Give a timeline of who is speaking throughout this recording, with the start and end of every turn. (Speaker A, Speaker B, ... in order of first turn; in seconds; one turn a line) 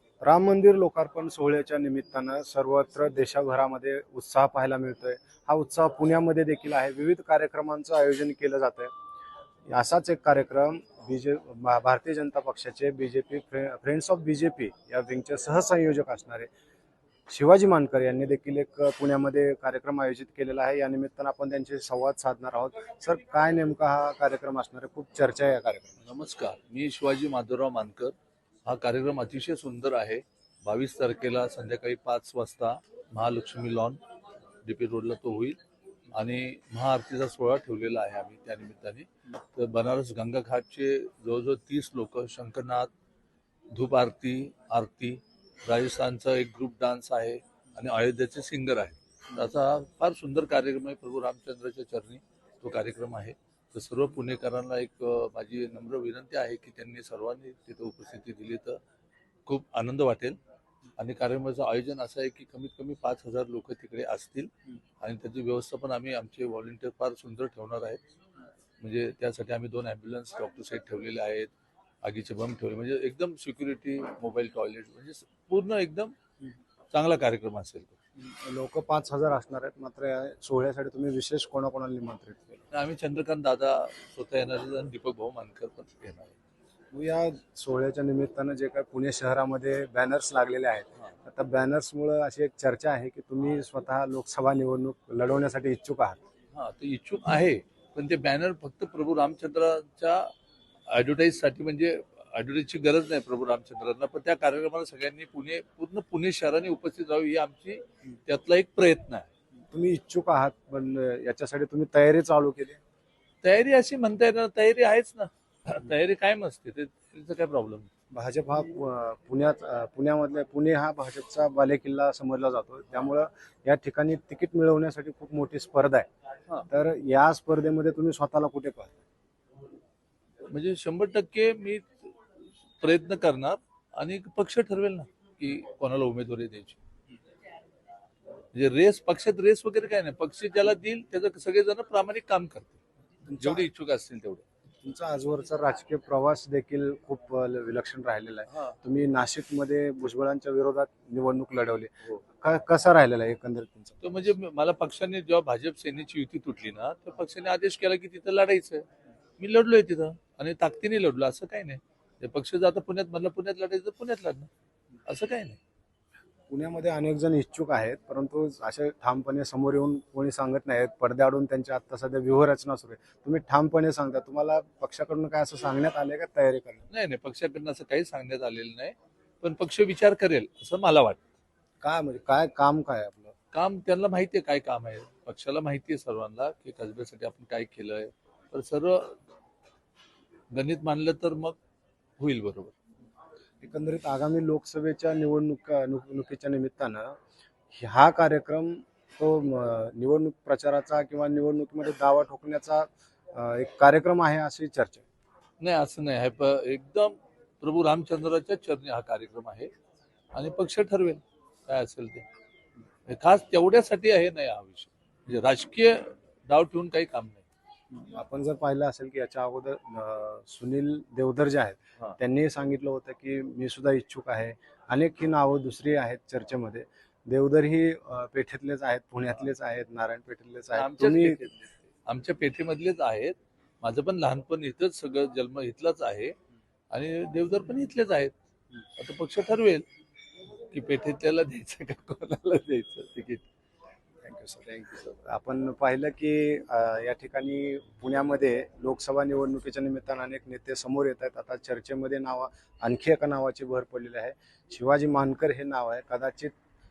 Speaker A: 0.2-8.9
Speaker A: 9.7-16.5
Speaker A: 17.3-26.0
Speaker B: 26.0-28.1
Speaker B: 28.6-34.0
Speaker B: 34.6-35.6
Speaker B: 36.1-42.9
Speaker B: 43.7-58.8
Speaker B: 59.5-60.4
Speaker B: 61.0-68.0
Speaker B: 68.8-71.5
Speaker B: 72.0-76.1
Speaker B: 76.9-78.0
Speaker A: 78.2-82.6
Speaker B: 82.7-86.3
Speaker A: 86.9-96.2
Speaker B: 96.5-100.3
Speaker B: 100.9-109.3
Speaker A: 109.7-112.8
Speaker B: 113.4-117.9
Speaker A: 118.1-126.1
Speaker A: 126.7-129.0
Speaker B: 130.5-132.1
Speaker B: 132.8-136.8
Speaker B: 138.5-142.8
Speaker A: 143.3-143.7
Speaker B: 143.4-144.4
Speaker A: 144.8-154.1
Speaker B: 154.0-158.8
Speaker B: 159.4-164.5
Speaker B: 165.1-165.6
Speaker A: 166.5-176.8
Speaker B: 176.9-181.2
Speaker A: 181.8-183.3
Speaker B: 183.5-189.2
Speaker B: 190.5-191.6
Speaker B: 192.2-192.7
Speaker A: 193.6-197.2
Speaker A: 197.7-205.0
Speaker B: 205.6-209.7
Speaker B: 210.3-212.2
Speaker B: 213.1-217.4
Speaker A: 218.0-231.4
Speaker B: 230.7-236.3
Speaker B: 236.9-238.3
Speaker B: 239.0-239.8
Speaker B: 240.7-243.4
Speaker A: 244.2-256.5